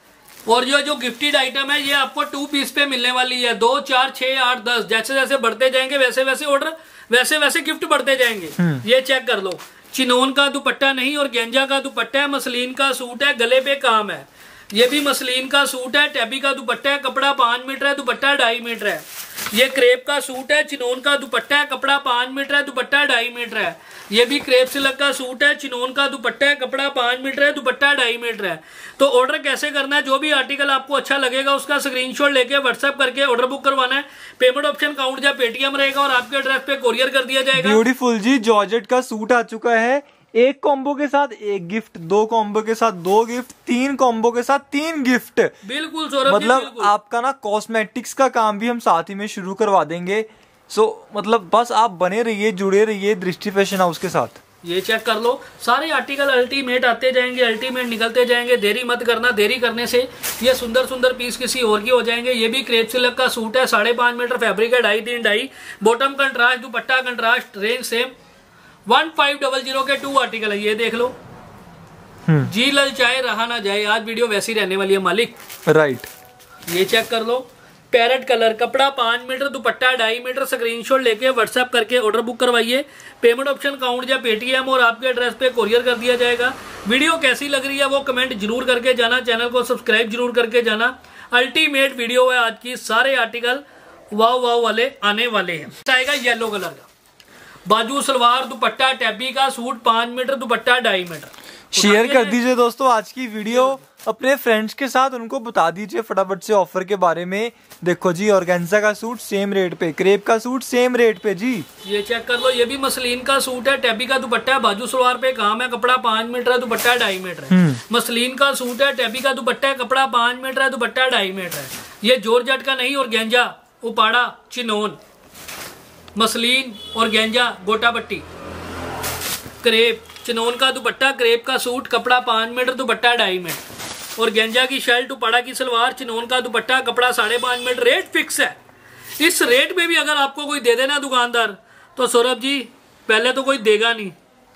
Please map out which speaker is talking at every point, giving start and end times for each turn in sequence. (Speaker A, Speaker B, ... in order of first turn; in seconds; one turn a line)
Speaker A: 0.5-37.8
Speaker B: 8.6-8.8
Speaker B: 37.5-45.5
Speaker A: 45.6-46.9
Speaker B: 46.3-54.4
Speaker A: 54.6-68.1
Speaker A: 68.9-71.1
Speaker A: 72.5-75.4
Speaker B: 75.7-76.1
Speaker A: 76.7-96.9
Speaker A: 97.7-102.4
Speaker B: 101.7-111.7
Speaker A: 103.5-103.8
Speaker A: 111.8-125.0
Speaker B: 117.5-117.8
Speaker A: 126.1-128.2
Speaker A: 129.6-133.6
Speaker A: 134.2-138.6
Speaker A: 139.2-144.2